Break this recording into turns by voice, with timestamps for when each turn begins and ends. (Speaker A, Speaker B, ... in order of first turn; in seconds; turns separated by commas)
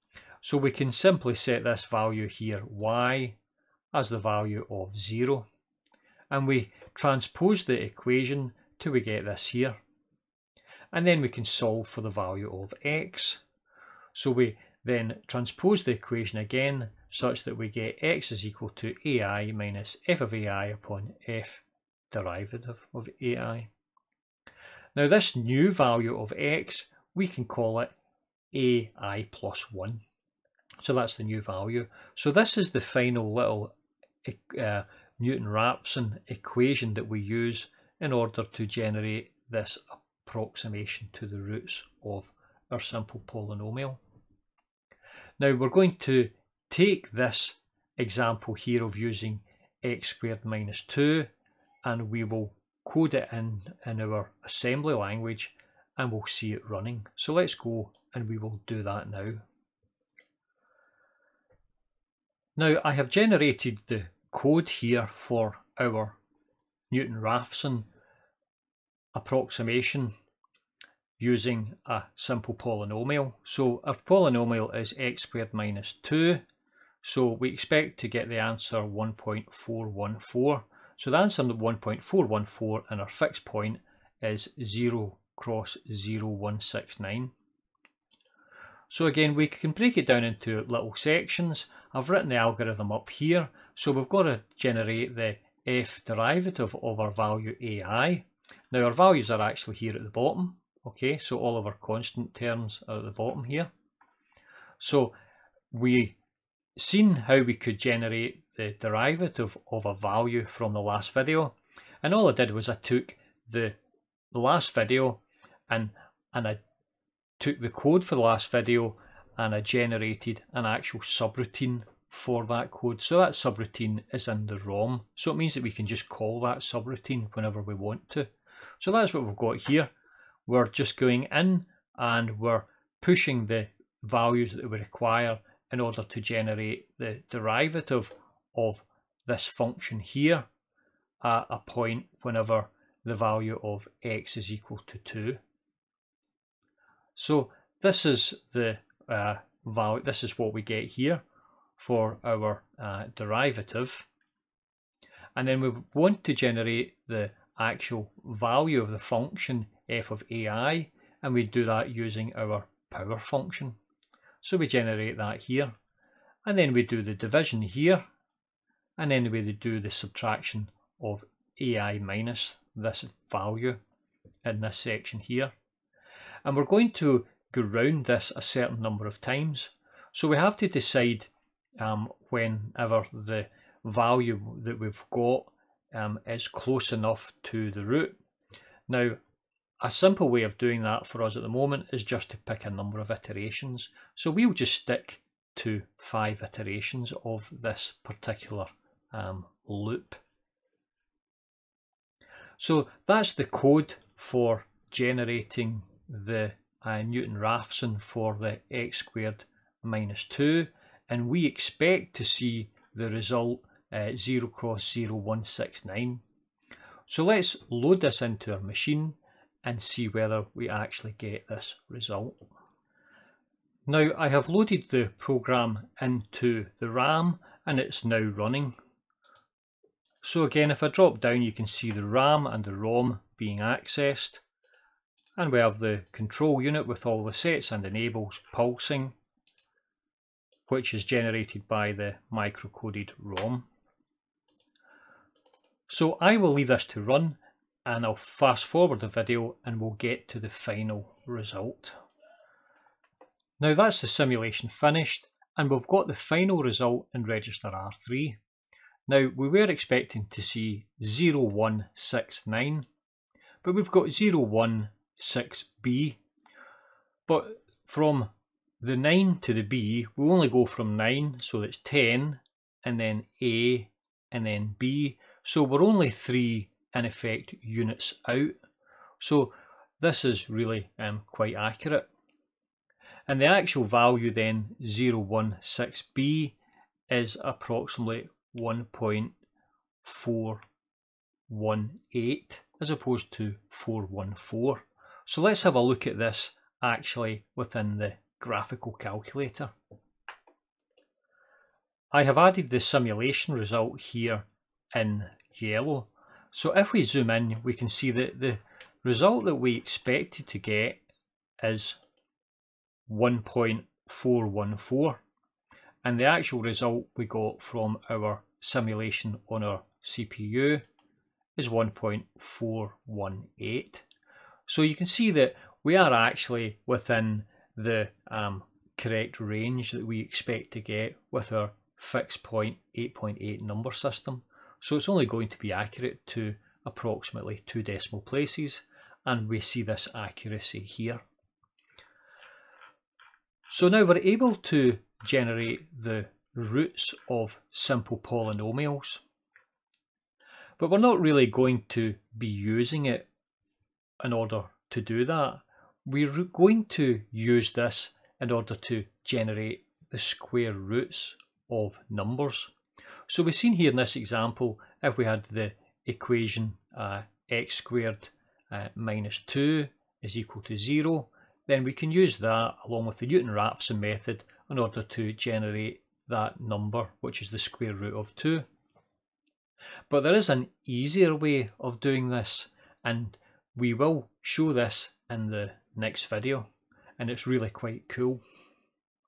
Speaker A: 0.4-3.4, Speaker A: 3.9-5.5, Speaker A: 6.3-9.8, Speaker A: 10.9-13.4, Speaker A: 14.1-23.7, Speaker A: 24.9-27.9, Speaker A: 28.5-30.0, Speaker A: 30.8-33.7, Speaker A: 34.2-44.0, Speaker A: 45.4-51.3, Speaker A: 51.8-59.4, Speaker A: 62.6-66.2, Speaker A: 66.9-67.9, Speaker A: 69.1-70.1, Speaker A: 71.2-76.4, Speaker A: 77.0-87.3, Speaker A: 88.9-103.7, Speaker A: 104.8-105.1, Speaker A: 105.7-106.2, Speaker A: 106.8-113.8, Speaker A: 114.3-116.6, Speaker A: 117.4-129.9, Speaker A: 130.4-140.4, Speaker A: 141.2-145.4, Speaker A: 147.2-151.2, Speaker A: 151.8-154.1, Speaker A: 155.3-163.8, Speaker A: 164.4-165.7, Speaker A: 166.4-168.0, Speaker A: 169.0-173.8, Speaker A: 174.4-175.5, Speaker A: 176.4-188.2, Speaker A: 188.9-189.2, Speaker A: 189.8-200.2, Speaker A: 202.6-216.2, Speaker A: 217.1-222.4, Speaker A: 223.9-228.8, Speaker A: 230.2-234.4, Speaker A: 235.4-239.1, Speaker A: 240.7-243.7, Speaker A: 245.9-252.0, Speaker A: 253.6-258.4, Speaker A: 259.1-262.9, Speaker A: 263.6-266.2, Speaker A: 267.3-268.3, Speaker A: 268.8-278.5, Speaker A: 279.2-282.1, Speaker A: 283.3-286.6, Speaker A: 287.1-289.3, Speaker A: 290.0-290.6, Speaker A: 291.5-299.7, Speaker A: 302.1-311.0, Speaker A: 311.6-312.0, Speaker A: 313.1-315.2, Speaker A: 316.0-320.8, Speaker A: 321.6-324.1, Speaker A: 324.7-341.2, Speaker A: 343.7-349.2, Speaker A: 350.8-353.3, Speaker A: 354.2-362.7, Speaker A: 363.3-378.6, Speaker A: 380.1-386.7, Speaker A: 387.2-388.4